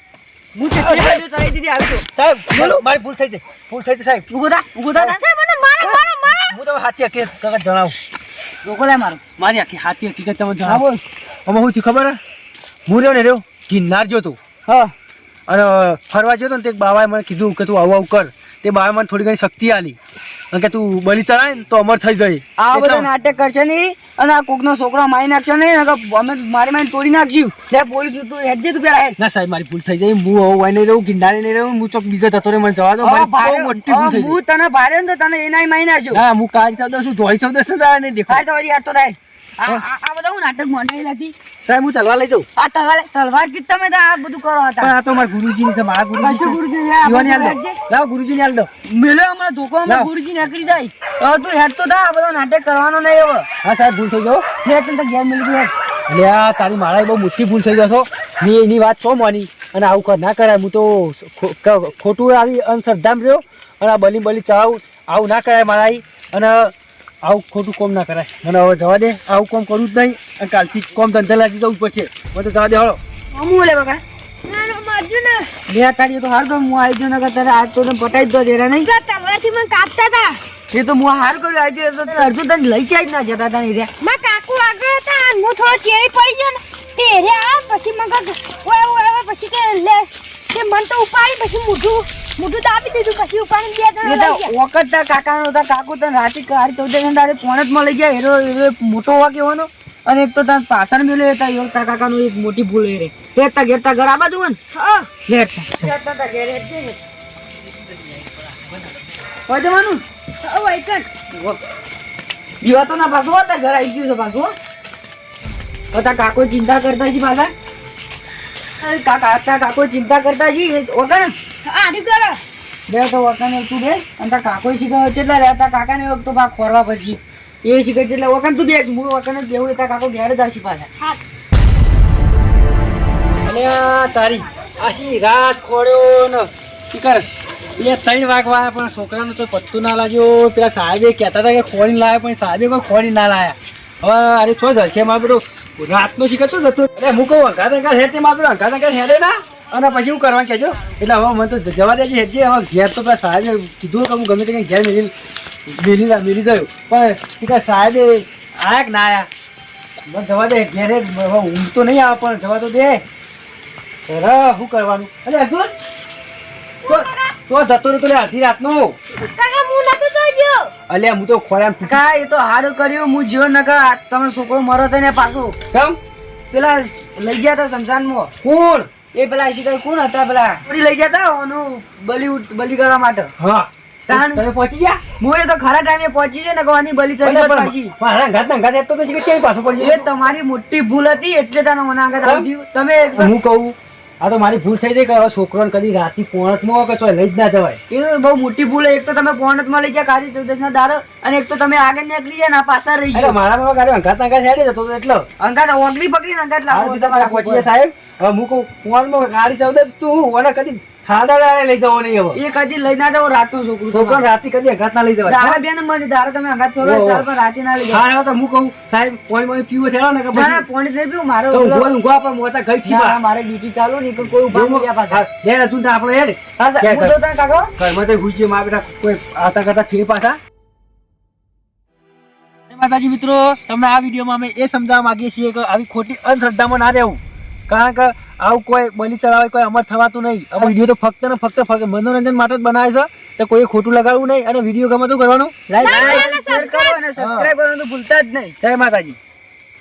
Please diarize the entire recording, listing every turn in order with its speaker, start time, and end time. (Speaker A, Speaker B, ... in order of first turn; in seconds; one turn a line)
Speaker A: 0.5-2.8
Speaker B: 0.7-1.2
Speaker B: 2.1-4.2
Speaker A: 4.3-5.2
Speaker C: 5.0-6.5
Speaker A: 5.8-6.0
Speaker B: 6.5-8.0
Speaker A: 8.6-9.2
Speaker B: 9.4-10.8
Speaker A: 10.6-11.0
Speaker B: 11.4-12.2
Speaker B: 12.9-14.4
Speaker A: 14.7-14.9
Speaker B: 15.5-20.0
Speaker B: 20.5-23.1
Speaker A: 22.6-29.2
Speaker B: 29.2-34.4
Speaker A: 33.0-36.2
Speaker B: 36.1-38.4
Speaker A: 38.3-41.3
Speaker B: 41.7-42.5
Speaker A: 42.5-44.9
Speaker B: 44.8-48.7
Speaker A: 46.2-47.8
Speaker A: 48.9-53.5
Speaker B: 49.9-50.1
Speaker B: 53.6-54.4
Speaker A: 54.6-55.7
Speaker B: 56.1-73.0
Speaker A: 73.3-74.0
Speaker C: 74.4-75.5
Speaker A: 75.7-78.9
Speaker C: 78.8-80.4
Speaker A: 80.7-83.9
Speaker C: 84.0-94.5
Speaker A: 94.0-107.0
Speaker A: 109.5-111.6
Speaker C: 110.5-110.9
Speaker A: 112.6-114.5
Speaker A: 115.9-117.5
Speaker A: 118.8-121.3
Speaker C: 121.6-122.4
Speaker A: 122.9-130.9
Speaker B: 133.4-137.2
Speaker B: 137.8-155.1
Speaker B: 155.7-159.3
Speaker B: 160.1-163.0
Speaker B: 164.1-165.7
Speaker C: 166.8-167.3
Speaker B: 166.9-168.9
Speaker C: 169.2-170.7
Speaker B: 170.9-172.0
Speaker A: 171.8-175.6
Speaker B: 175.7-176.0
Speaker A: 176.5-178.3
Speaker B: 178.4-178.9
Speaker A: 179.1-183.3
Speaker B: 183.4-185.0
Speaker A: 184.1-184.4
Speaker A: 185.2-187.9
Speaker B: 187.2-190.1
Speaker A: 189.8-193.3
Speaker B: 192.2-192.5
Speaker B: 193.1-197.8
Speaker A: 197.9-203.4
Speaker B: 203.1-205.2
Speaker A: 205.4-207.7
Speaker B: 206.7-212.4
Speaker A: 212.3-214.2
Speaker B: 213.9-215.6
Speaker A: 215.2-218.0
Speaker B: 216.8-217.3
Speaker B: 217.8-220.7
Speaker A: 220.3-221.9
Speaker B: 221.5-223.2
Speaker A: 222.8-225.2
Speaker B: 224.2-227.2
Speaker A: 226.6-227.7
Speaker B: 227.8-230.4
Speaker B: 232.7-246.3
Speaker A: 245.7-248.6
Speaker C: 245.8-247.0
Speaker B: 247.2-247.5
Speaker B: 248.6-249.2